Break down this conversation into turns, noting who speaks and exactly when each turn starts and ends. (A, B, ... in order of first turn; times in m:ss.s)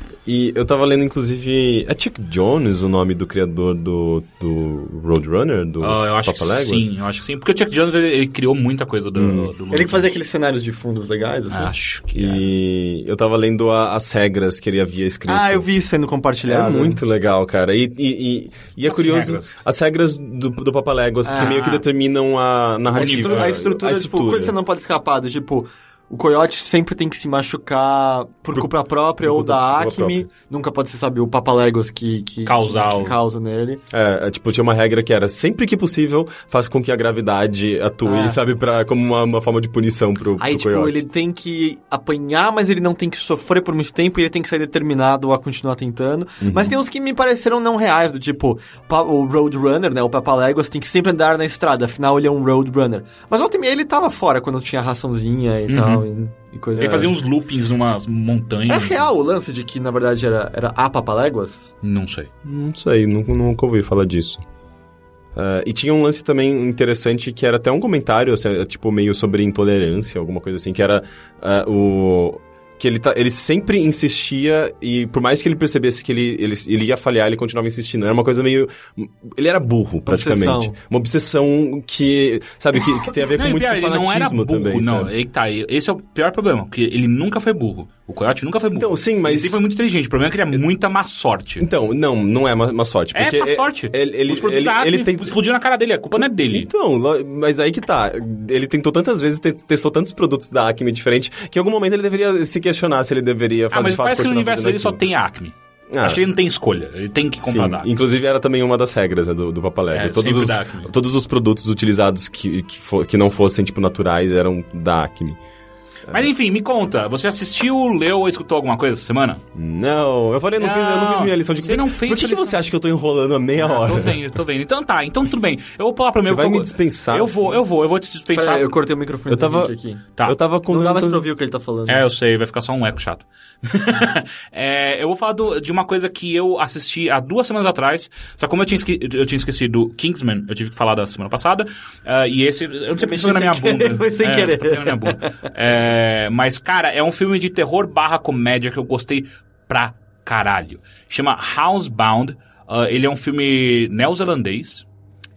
0:00.3-0:06.9 A
0:05.8-0:10.1 B
0:09.2-0:09.5 A
0:09.7-0:11.7 C
0:11.5-0:12.4 B
0:12.1-0:15.7 A
0:15.3-0:17.0 C
0:16.4-0:24.6 A
0:18.9-0:19.5 B
0:21.2-0:21.6 C
0:21.4-0:21.8 B
0:22.9-0:33.8 C
0:23.0-0:23.5 B
0:29.2-0:30.3 A
0:32.5-0:33.2 B
0:33.9-0:41.0 A
0:38.0-0:38.4 C
0:40.4-0:57.1 C
0:46.4-0:46.8 A
0:55.7-0:56.0 B
0:56.8-0:59.1 B
0:56.8-0:57.1 A
0:58.7-1:01.7 C
1:01.8-1:02.3 B
1:02.4-1:04.4 A
1:05.4-1:25.1 A
1:20.1-1:20.8 C
1:23.3-1:31.7 B
1:28.8-1:29.6 A
1:31.6-1:35.4 A
1:33.1-1:36.7 B
1:36.5-1:45.0 A
1:43.7-1:47.9 B
1:45.9-1:46.2 A
1:47.4-1:55.4 A
1:49.9-1:50.9 B
1:56.1-1:59.4 B
1:59.6-2:04.2 A
2:00.6-2:02.6 B
2:03.6-2:08.7 B
2:06.2-2:07.6 A
2:08.3-2:10.0 C
2:09.3-2:09.7 A
2:10.2-2:11.2 A
2:10.7-2:12.1 C
2:11.9-2:34.9 B
2:23.0-2:25.5 C